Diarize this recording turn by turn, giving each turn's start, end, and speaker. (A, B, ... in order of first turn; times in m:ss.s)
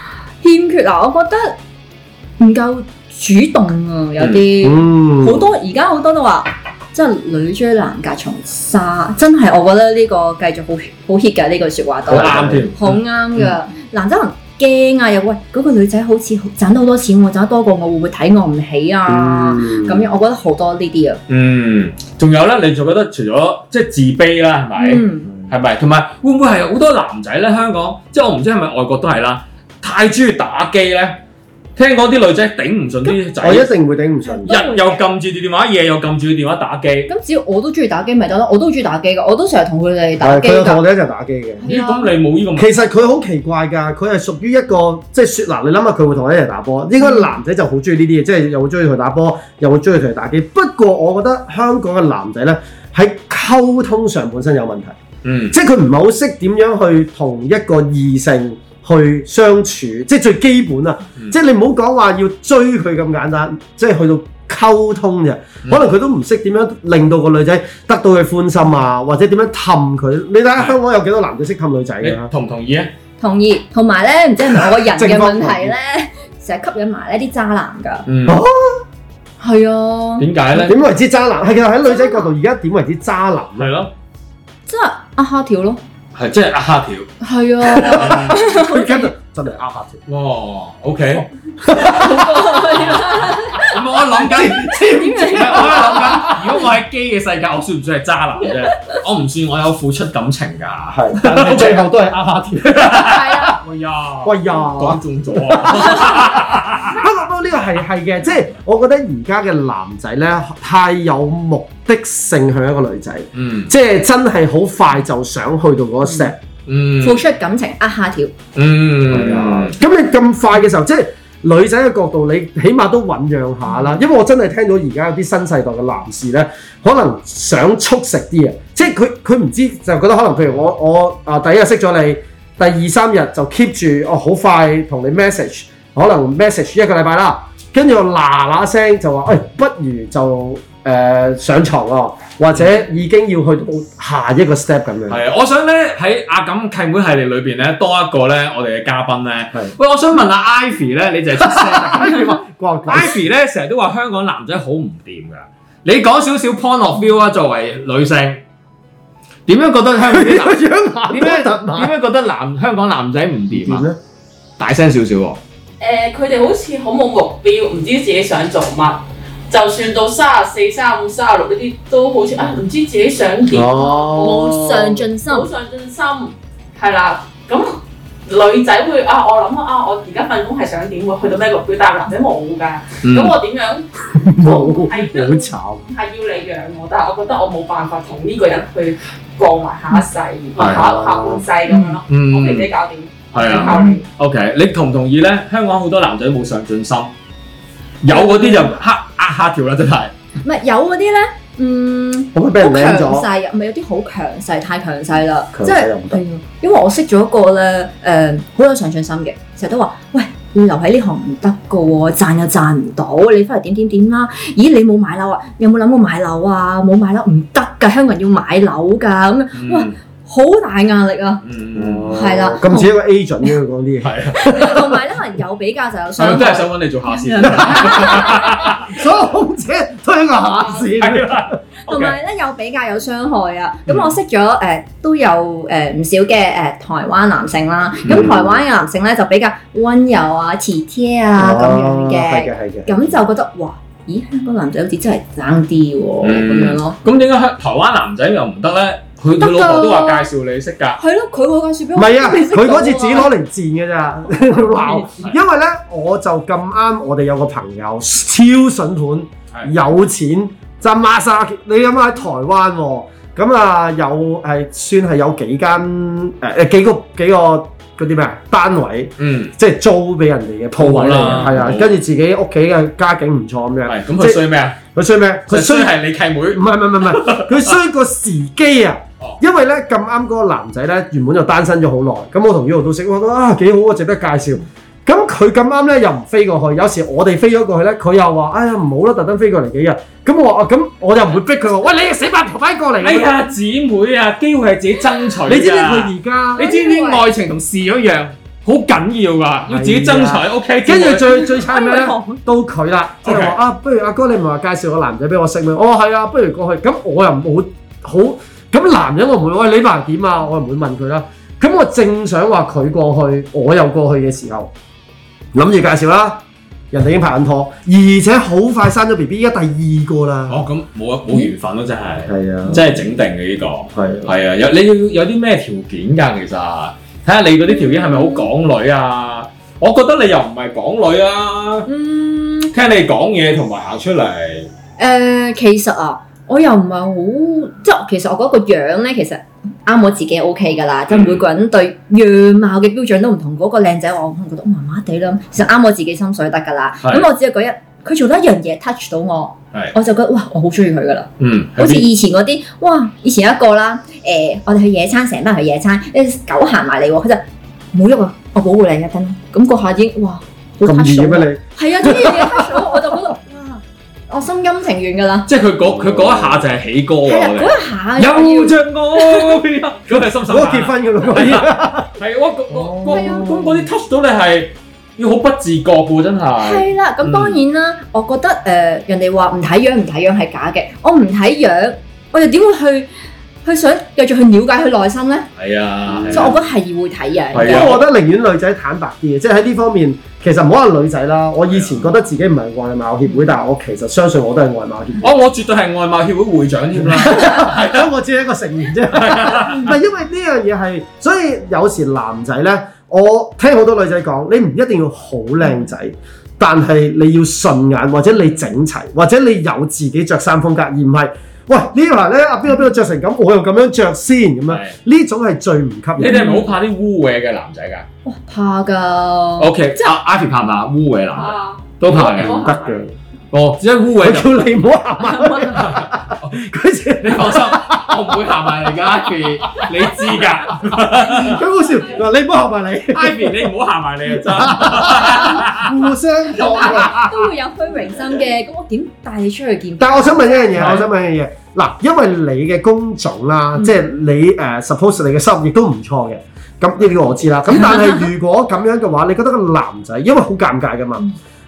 0:00.4-0:01.6 A
0:02.4-0:21.2 A
0:04.2-0:04.5 B
0:04.6-0:05.5 C
0:12.1-0:12.7 C
0:12.1-0:13.5 B
0:19.1-0:20.1 C
0:21.3-0:31.2 B
0:24.8-0:25.3 A
0:31.8-0:33.7 B
0:33.4-0:34.6 C
0:34.2-0:35.0 A
0:34.5-0:37.1 B
0:37.1-0:40.8 A
0:40.2-0:41.6 C
0:41.6-0:42.1 A
0:41.6-0:42.9 B
0:42.6-0:55.0 C
0:47.0-0:47.3 A
0:55.2-0:55.6 B
0:55.5-1:12.3 C
1:12.0-1:12.9 B
1:13.2-1:18.1 A
1:14.6-1:15.8 C
1:18.1-1:18.4 B
1:18.3-1:18.8 C
1:19.4-1:20.3 A
1:20.2-1:20.8 B
1:20.6-1:23.7 C
1:21.9-1:22.3 A
1:23.6-1:23.9 B
1:24.7-1:25.8 A
1:26.1-1:27.1 B
1:27.2-1:29.1 A
1:27.7-1:30.0 C
1:27.8-1:28.4 B
1:30.1-1:31.3 B
1:31.6-1:32.5 C
1:31.7-1:33.8 A
1:32.7-1:41.9 B
1:34.2-1:36.5 C
1:34.6-1:36.4 A
1:40.9-1:43.3 C
1:42.6-1:47.0 B
1:42.9-1:43.6 A
1:44.2-1:56.4 C
1:53.4-1:53.7 B
1:56.0-1:56.3 A
1:56.7-1:57.2 B
1:57.0-1:58.3 A
1:58.6-1:59.8 B
1:59.1-2:25.2 C
2:03.7-2:04.0 A
2:25.1-2:38.4 B
2:31.4-2:33.2 C
2:39.5-2:43.9 B
2:40.0-2:41.9 C
2:43.5-2:44.0 C
2:44.6-2:45.4 B
2:45.8-2:54.6 D
2:53.5-2:55.1 C
2:54.1-2:55.5 A
2:55.3-3:14.0 D
3:03.0-3:03.4 B
3:04.1-3:05.9 C
3:10.6-3:10.9 B
3:10.6-3:11.5 C
3:11.7-3:12.0 A
3:12.1-3:12.7 B
3:13.3-3:17.1 B
3:13.5-3:14.0 A
3:18.0-3:20.1 B
3:18.1-3:18.7 A
3:20.4-3:41.4 A
3:22.3-3:23.3 C
3:25.5-3:26.2 C
3:39.6-3:39.9 B
3:41.4-3:42.1 B
3:41.8-3:45.0 C
3:42.1-3:42.9 A
3:44.0-3:44.5 B
3:44.3-3:48.9 A
3:46.2-3:49.0 B
3:47.4-3:51.6 C
3:51.0-3:52.2 B
3:51.8-4:07.0 A
3:53.9-3:54.1 B
3:58.0-3:58.3 B
3:58.1-3:58.6 C
4:01.4-4:02.9 C
4:06.2-4:11.0 B
4:09.4-4:10.3 A
4:11.0-4:13.3 A
4:12.0-4:34.4 C
4:14.4-4:15.1 A
4:29.2-4:29.5 B
4:30.8-4:32.0 B
4:33.9-4:34.8 B
4:34.9-4:35.9 C
4:35.5-4:37.7 B
4:36.5-4:53.4 C
4:53.0-5:01.4 B
4:55.5-4:56.7 C
4:56.6-4:57.3 A
4:59.7-5:14.7 C
5:01.3-5:02.4 A
5:03.2-5:03.6 B
5:15.5-5:20.7 C
5:20.5-5:31.9 B
5:22.3-5:22.9 C
5:23.9-5:24.3 C
5:27.7-5:28.5 A
5:31.9-5:32.7 A
5:32.7-5:34.7 B
5:35.0-6:05.5 A
5:41.1-5:41.4 B
5:51.4-5:52.1 B
6:00.8-6:02.9 C
6:05.5-6:17.6 B
6:05.9-6:06.6 C
6:07.2-6:09.4 A
6:10.4-6:12.2 C
6:12.7-6:13.4 C
6:13.1-6:13.9 A
6:16.6-6:23.1 A
6:23.6-6:25.5 A
6:25.6-6:26.6 B
6:26.1-6:26.6 C
6:26.3-6:28.0 A
6:27.5-6:28.0 B
6:27.6-6:35.3 C
6:31.7-6:32.1 B
6:35.2-6:38.1 B
6:37.0-6:56.6 C
6:39.1-6:40.0 B
6:54.7-6:55.0 B
6:56.2-6:58.1 B
6:56.3-6:56.7 A
6:58.3-7:00.1 A
6:59.6-7:02.7 B
7:01.4-7:03.0 D
7:02.4-7:03.1 C
7:03.5-7:04.7 B
7:04.2-7:13.7 C
7:05.6-7:06.6 B
7:07.2-7:11.6 B
7:13.1-7:16.0 B
7:14.3-7:17.3 C
7:16.6-7:20.8 A
7:16.6-7:17.3 B
7:20.0-7:31.2 C
7:20.8-7:21.1 B